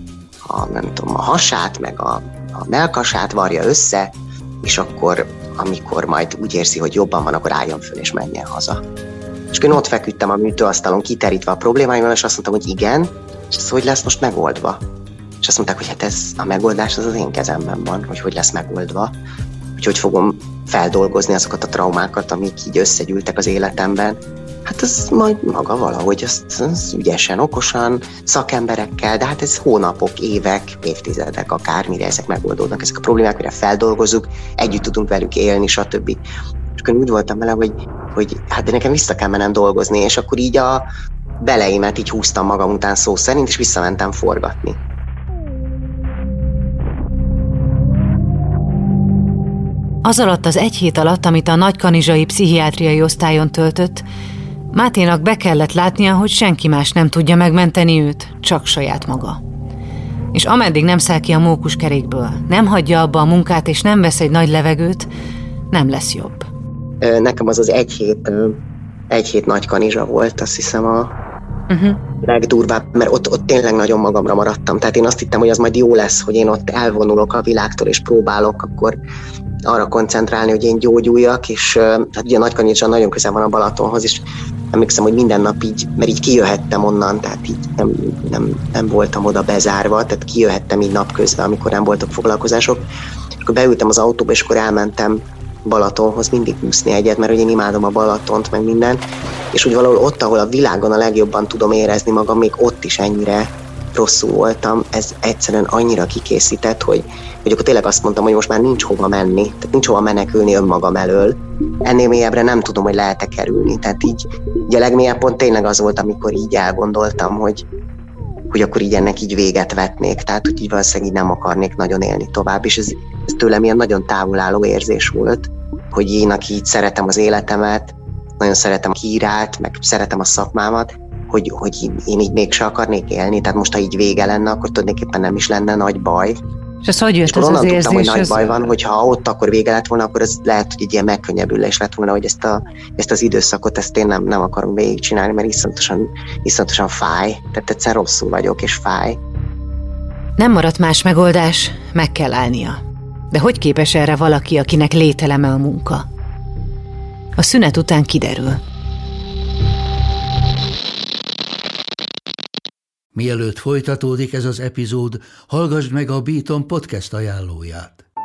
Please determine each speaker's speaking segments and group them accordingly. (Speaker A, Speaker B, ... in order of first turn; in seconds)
Speaker A: 0.4-8.8, 9.5-14.8, 15.4-19.1, 19.8-36.2, 36.8-40.8, 41.4-44.8, 67.0-68.6, 69.1-71.1, 72.2-79.0, 79.7-92.8, 93.4-99.0, 99.5-117.6, 118.5-136.4, 137.2-149.2
Speaker B: 50.0-54.0, 54.7-59.4, 60.3-65.1, 65.7-66.5, 71.7-72.0, 136.8-138.5, 150.4-152.8, 153.3-156.0, 157.4-158.6
Speaker C: 163.1-168.0